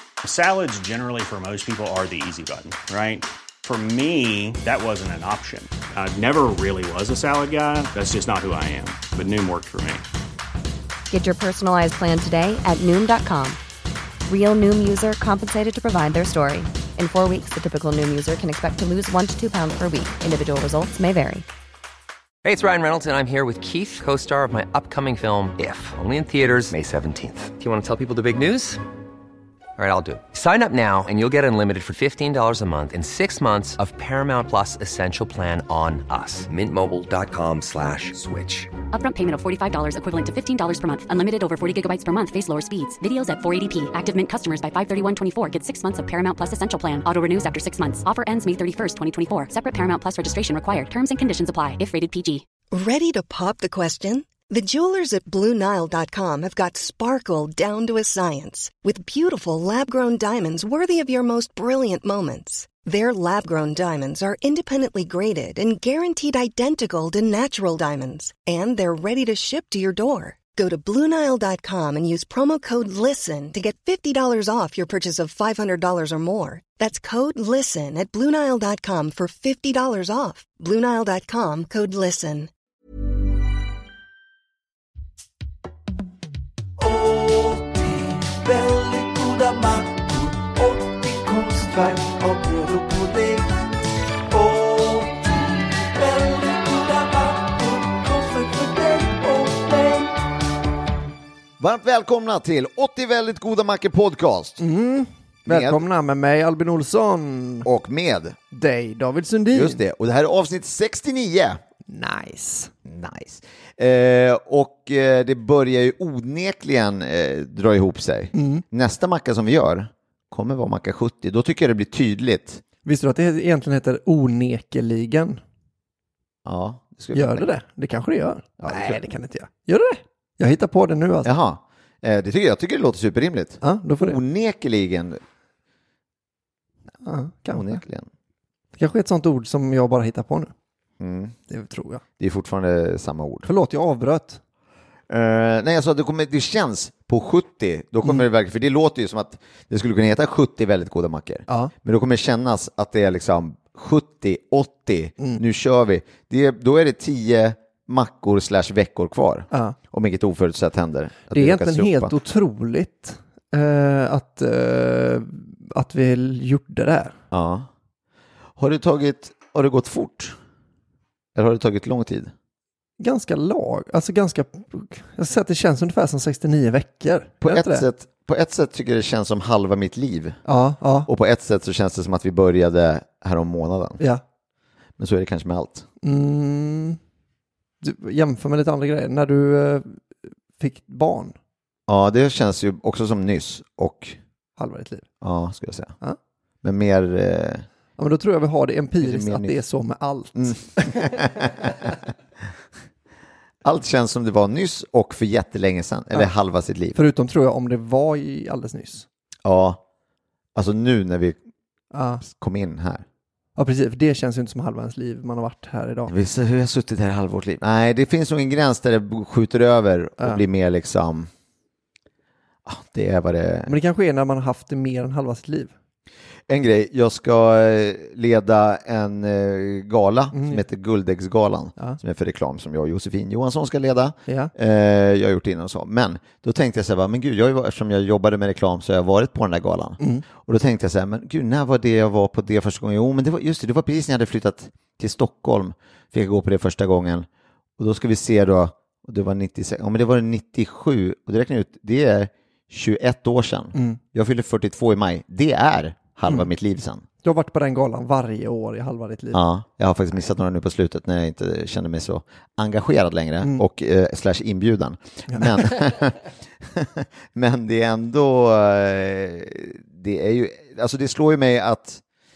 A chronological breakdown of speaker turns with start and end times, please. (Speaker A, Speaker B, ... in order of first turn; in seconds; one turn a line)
Speaker A: 0.2-10.0
Speaker B: 11.1-13.6
Speaker B: 14.3-21.4
Speaker C: 22.4-28.8
Speaker C: 29.8-38.7
Speaker D: 38.9-52.4
Speaker E: 52.7-82.5
Speaker F: 88.9-89.9
Speaker F: 90.6-93.4
Speaker F: 98.3-99.6
Speaker G: 101.6-104.6
Speaker H: 104.6-107.7
Speaker G: 105.5-105.8
Speaker G: 107.6-108.4
Speaker H: 108.5-109.8
Speaker G: 109.5-111.6
Speaker H: 111.9-112.7
Speaker G: 112.8-122.6
Speaker H: 118.3-118.6
Speaker H: 122.8-125.4
Speaker G: 126.4-127.5
Speaker H: 127.1-131.3
Speaker G: 128.6-129.0
Speaker G: 131.2-135.2
Speaker H: 133.6-134.2
Speaker H: 137.0-137.8
Speaker G: 137.5-138.1
Speaker H: 138.8-140.5
Speaker G: 141.0-141.3
Speaker H: 141.5-142.0
Speaker G: 142.2-143.5
Speaker H: 143.4-144.4
Speaker G: 145.1-162.1
Speaker H: 161.3-167.2
Speaker G: 167.3-167.7
Speaker G: 168.6-170.3
Speaker G: 171.3-172.3
Speaker H: 173.0-177.8
Speaker G: 177.4-180.4
Speaker H: 180.4-181.1
Speaker G: 181.1-184.0
Speaker G: 185.0-185.9
Speaker H: 186.0-187.0
Speaker H: 187.8-190.0
Speaker H: 190.6-191.3
Speaker G: 191.9-194.2
Speaker H: 194.6-195.1
Speaker G: 195.2-195.9
Speaker G: 196.6-197.7
Speaker H: 198.0-201.2
Speaker G: 199.0-199.5
Speaker G: 200.3-201.9
Speaker G: 203.6-207.0
Speaker H: 206.9-209.1
Speaker G: 209.4-209.8
Speaker G: 210.6-211.4
Speaker H: 211.9-212.2
Speaker G: 212.2-213.0
Speaker H: 213.6-216.1
Speaker G: 216.1-221.3
Speaker G: 222.7-223.7
Speaker H: 223.7-225.7
Speaker G: 226.5-247.3
Speaker H: 230.3-230.6
Speaker H: 234.3-234.5
Speaker G: 247.8-257.1
Speaker H: 253.7-254.0
Speaker H: 257.2-259.4
Speaker G: 259.3-272.0
Speaker H: 265.3-265.8